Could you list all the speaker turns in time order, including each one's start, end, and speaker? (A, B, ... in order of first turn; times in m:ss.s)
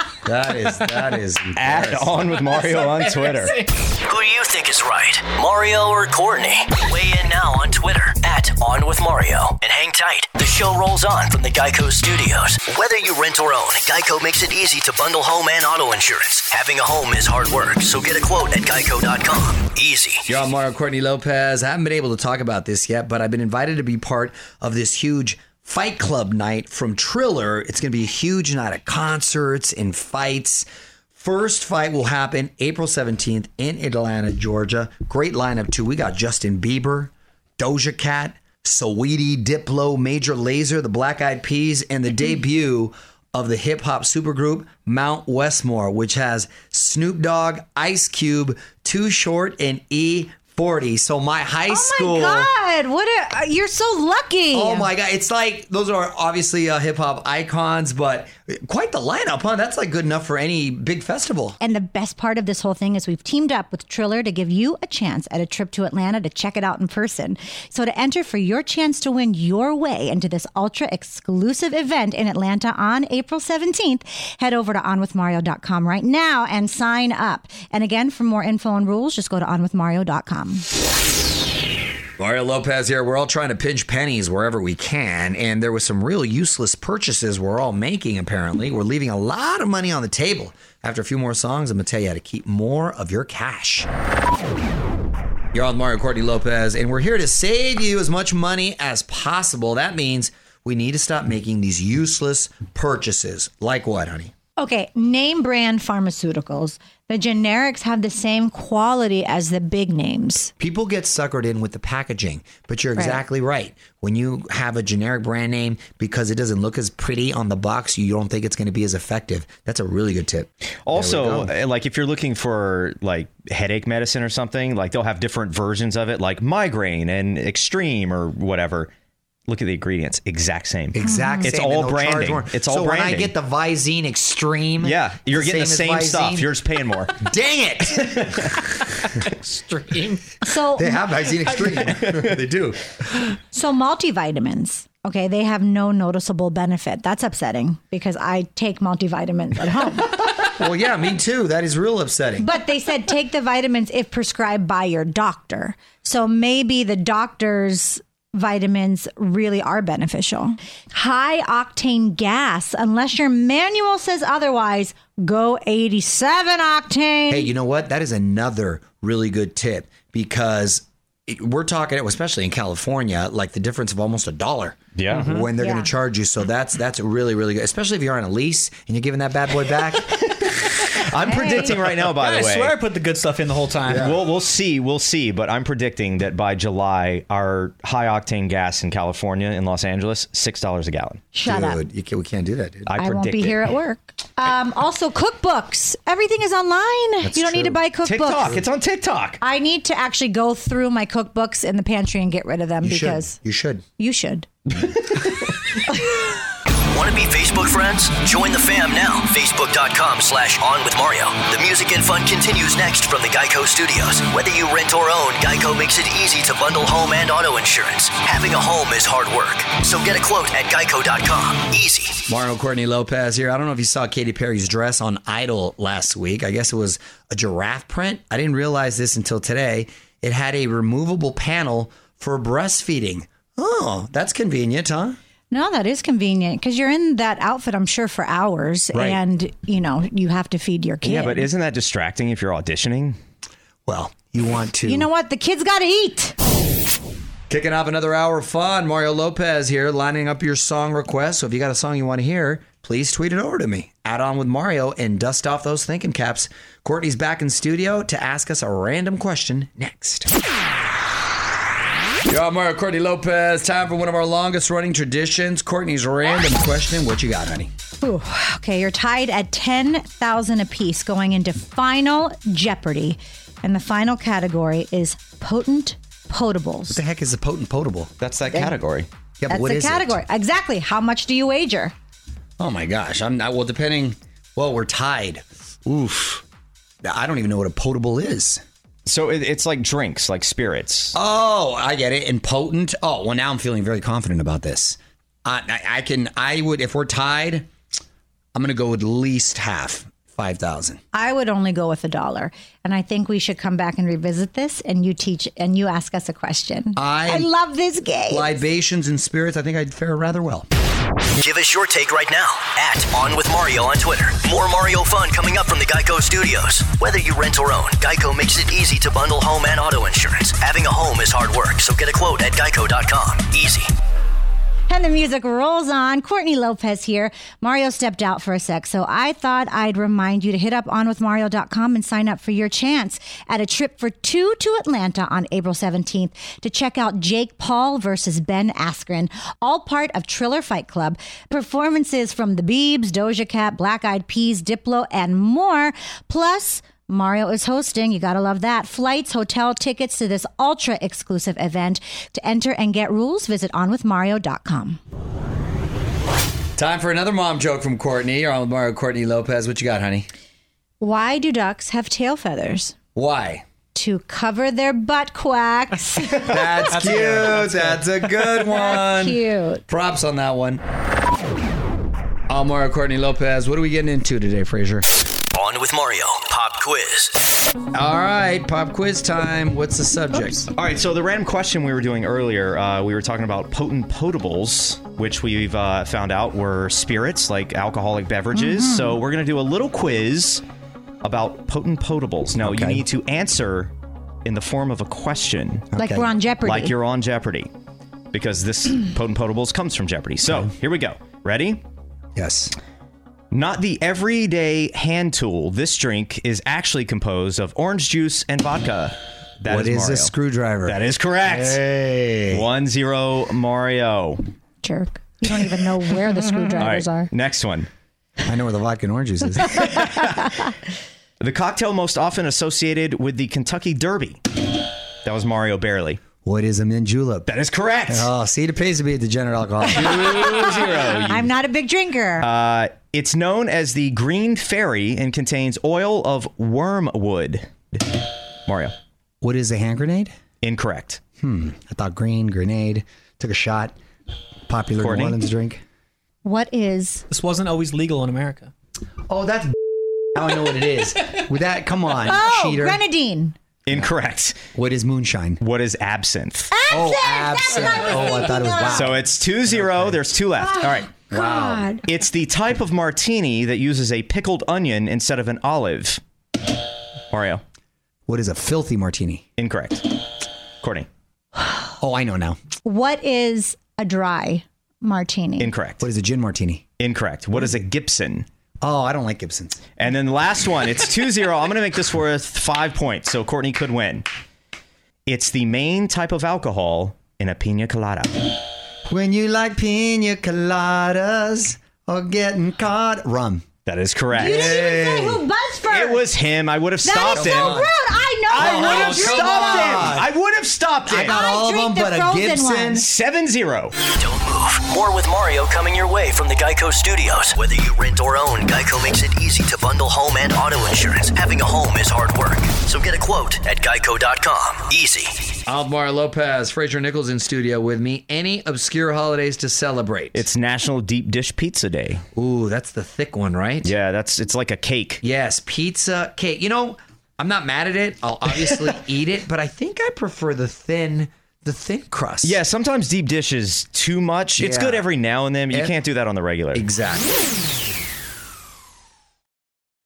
0:00.2-0:02.2 A
0:01.6-0:03.7 B
0:04.0-0:20.2 C
0:20.3-0:52.5 A
0:51.7-0:54.9 D
0:54.5-1:01.6 A
1:01.6-1:20.6 D
1:22.2-1:33.9 A
1:35.5-1:44.3 A
1:44.6-1:50.5 D
1:50.6-2:01.5 A
2:00.9-2:08.9 B
2:09.5-2:13.3 B
2:10.9-2:16.5 A
2:11.0-2:11.5 D
2:14.8-2:17.2 B
2:17.2-2:18.2 A
2:18.1-2:18.6 B
2:19.5-2:20.2 E
2:20.4-2:21.0 D
2:20.8-2:22.8 A
2:23.5-2:30.2 D
2:30.6-2:32.5 A
2:32.4-2:47.5 D
2:47.3-3:00.1 A
2:55.0-2:55.3 B
2:55.1-2:55.5 E
2:55.6-2:55.9 D
3:00.1-3:02.8 B
3:01.2-3:01.7 D
3:02.0-3:04.0 E
3:03.9-3:04.2 A
3:03.9-3:11.2 B
3:11.3-3:11.8 D
3:11.4-3:13.0 A
3:12.9-3:13.6 B
3:13.0-3:18.6 D
3:17.2-3:17.8 A
3:18.0-3:19.4 B
3:19.4-3:23.4 D
3:22.8-3:23.8 A
3:24.0-3:24.5 D
3:26.9-3:42.2 C
3:42.3-3:55.2 A
3:55.5-4:01.4 D
3:58.9-3:59.2 A
4:01.0-4:03.2 B
4:03.8-4:05.1 A
4:04.8-4:06.3 D
4:07.5-4:20.3 A
4:22.3-4:27.7 A
4:28.0-4:37.0 D
4:36.9-4:38.1 A
4:38.2-4:39.1 B
4:39.4-4:40.2 A
4:39.5-4:41.9 D
4:42.6-4:46.4 A
4:47.0-4:48.6 A
4:49.0-4:51.1 B
4:51.1-4:57.7 A
4:58.5-5:01.0 A
5:01.1-5:08.6 D
5:07.0-5:07.5 A
5:08.3-5:10.6 A
5:11.4-5:23.9 C
5:24.9-5:55.0 D
5:56.8-6:00.3 A
6:01.0-6:02.9 D
6:03.1-6:03.6 A
6:03.9-6:06.6 D
6:06.4-6:10.8 A
6:06.9-6:08.0 E
6:08.7-6:09.8 D
6:12.5-6:15.0 A
6:15.5-6:17.3 C
6:17.9-6:20.7 A
6:20.8-6:30.6 B
6:28.5-6:29.1 D
6:31.2-6:33.9 B
6:32.6-6:33.0 A
6:34.4-6:35.9 B
6:35.9-6:36.3 A
6:36.0-6:36.9 D
6:36.6-6:37.7 B
6:38.3-6:41.8 B
6:42.4-6:42.7 A
6:43.5-6:50.3 B
6:49.7-6:52.6 A
6:50.9-6:51.8 B
6:52.5-6:54.4 B
6:54.8-6:57.3 D
6:56.8-6:57.9 B
6:58.4-6:59.7 A
6:59.9-7:00.4 B
7:01.4-7:04.4 B
7:05.2-7:06.2 B
7:06.4-7:07.4 A
7:07.4-7:08.3 B
7:08.1-7:10.4 A
7:10.0-7:11.5 B
7:11.2-7:12.5 D
7:12.4-7:18.9 B
7:19.4-7:20.3 A
7:20.6-7:21.2 B
7:21.4-7:23.9 A
7:24.7-7:25.8 A
7:25.0-7:25.4 B
7:26.4-7:27.2 D
7:27.3-7:28.7 E
7:29.3-7:29.7 A
7:30.3-7:33.0 A
7:32.2-7:33.5 D
7:33.8-7:34.6 B
7:34.7-7:35.6 A
7:35.6-7:36.7 B
7:36.7-7:39.1 D
7:36.9-7:39.2 A
7:38.9-7:41.0 B
7:39.8-7:40.1 A
7:40.6-7:42.0 D
7:41.1-7:41.9 A
7:42.0-7:46.2 B
7:47.3-7:47.6 B
7:48.3-7:49.4 A
7:49.6-7:50.0 B
7:50.8-7:51.1 B
7:52.0-7:52.6 A
7:52.8-7:55.7 D
7:55.6-7:56.0 B
7:56.0-7:56.8 A
7:57.0-7:58.4 B
7:58.8-7:59.8 A
8:00.0-8:04.2 B
8:05.2-8:08.5 B
8:09.1-8:13.6 A
8:13.8-8:14.7 B
8:14.3-8:16.2 D
8:14.4-8:15.4 A
8:15.9-8:17.8 B
8:17.0-8:20.1 D
8:17.3-8:17.9 A
8:18.5-8:21.4 B
8:18.5-8:20.3 A
8:21.0-8:23.0 A
8:21.3-8:23.1 D
8:23.0-8:24.0 B
8:24.1-8:35.3 C
8:35.7-8:40.4 A
8:40.3-8:42.2 B
8:42.3-8:43.9 A
8:43.8-8:45.2 B
8:45.2-8:52.6 A
8:52.4-8:56.8 B
8:54.6-8:55.1 A
8:55.7-8:56.0 A
8:56.7-8:57.3 A